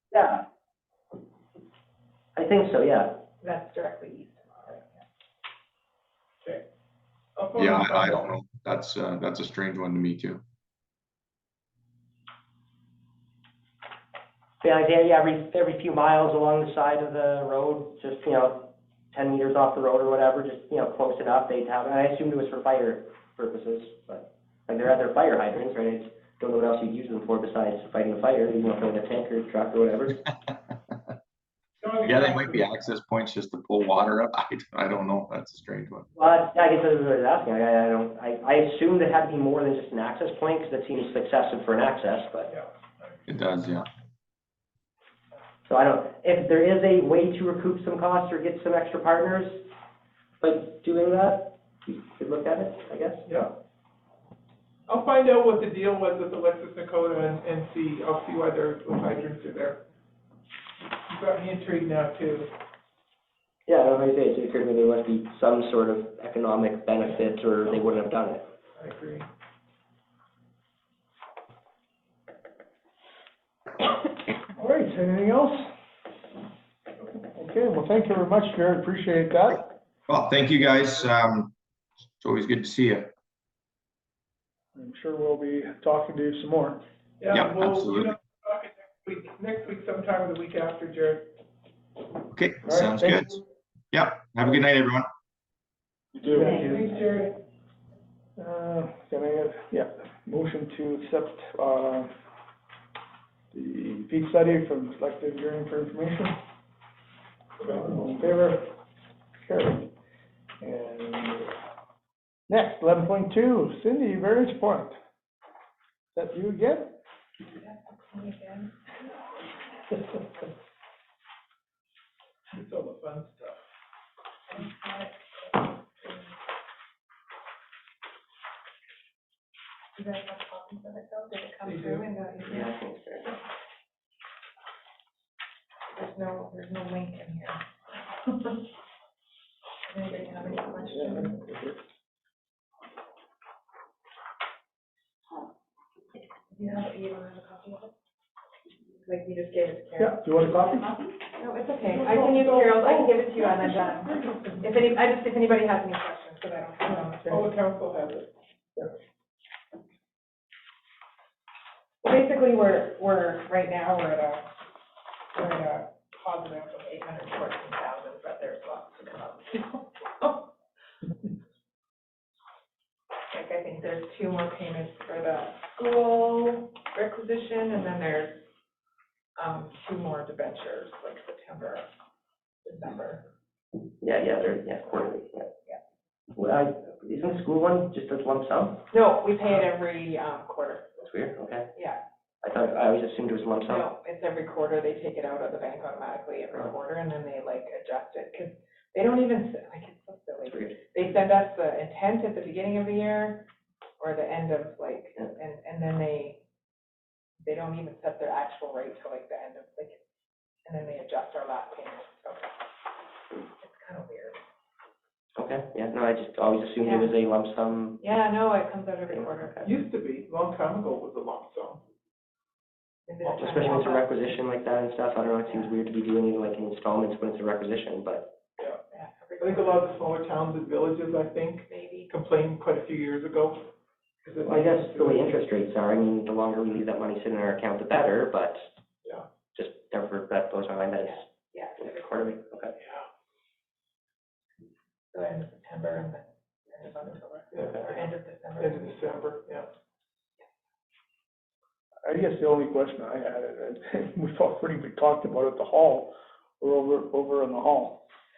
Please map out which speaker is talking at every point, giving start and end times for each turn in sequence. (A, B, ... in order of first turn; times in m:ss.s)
0:00.1-0:00.4 A
0:02.4-0:03.2 A
0:03.4-0:05.0 B
0:07.4-0:08.3 C
0:07.5-0:10.4 D
0:14.6-0:30.2 A
0:30.2-0:30.9 D
0:31.8-0:32.9 C
0:32.0-0:36.1 D
0:36.2-0:42.5 A
0:42.5-0:43.4 C
0:43.3-0:43.9 D
0:45.6-0:49.7 A
0:50.4-0:53.2 A
0:53.2-0:53.5 C
0:54.9-0:59.8 C
1:01.1-1:02.5 C
1:03.7-1:08.5 A
1:07.1-1:07.8 C
1:08.8-1:09.3 C
1:14.5-1:15.7 E
1:17.3-1:19.7 E
1:20.1-1:21.5 D
1:22.2-1:23.1 D
1:24.7-1:26.8 E
1:27.2-1:31.3 C
1:27.3-1:28.1 D
1:32.3-1:33.4 D
1:32.6-1:33.3 E
1:33.9-1:35.1 D
1:36.2-1:37.0 E
1:36.6-1:37.3 C
1:38.4-1:42.1 E
1:43.5-1:46.4 E
1:47.7-1:48.7 E
1:49.4-1:49.9 E
1:50.6-1:51.5 E
1:52.5-1:55.0 E
1:56.1-1:57.0 E
1:57.5-1:58.8 B
2:02.5-2:03.6 C
2:04.5-2:06.4 B
2:09.9-2:13.4 B
2:11.6-2:12.1 C
2:12.4-2:13.3 A
2:15.9-2:18.6 B
2:19.8-2:21.3 B
2:20.8-2:21.8 E
2:26.5-2:27.9 B
2:29.0-2:30.2 B
2:30.0-2:31.0 E
2:31.4-2:37.4 B
2:31.8-2:34.4 C
2:37.3-2:38.3 C
2:42.0-2:44.5 B
2:45.3-2:50.5 B
2:53.3-2:58.4 B
2:59.4-3:01.8 B
3:02.6-3:03.2 B
3:04.0-3:05.5 A
3:06.3-3:08.8 A
3:08.9-3:10.8 B
3:11.0-3:11.7 A
3:11.7-3:12.0 B
3:12.4-3:13.8 A
3:13.6-3:23.4 B
3:20.5-3:20.8 A
3:24.0-3:26.4 B
3:27.4-3:30.0 B
3:30.6-3:32.5 B
3:33.5-3:34.4 B
3:35.4-3:38.0 A
3:36.8-3:37.2 B
3:38.0-3:39.7 B
3:39.1-3:39.7 A
3:39.6-3:41.8 C
3:43.1-3:44.2 B
3:43.3-3:48.3 A
3:45.5-3:45.7 B
3:48.9-3:49.9 B
3:49.4-3:53.7 C
3:51.7-3:52.1 B
3:54.2-3:55.4 C
3:54.4-3:58.6 A
3:59.5-4:01.3 A
4:01.0-4:02.3 B
4:01.8-4:02.7 A
4:02.8-4:03.1 C
4:05.1-4:09.0 B
4:07.5-4:08.1 C
4:08.6-4:09.7 C
4:12.0-4:18.0 E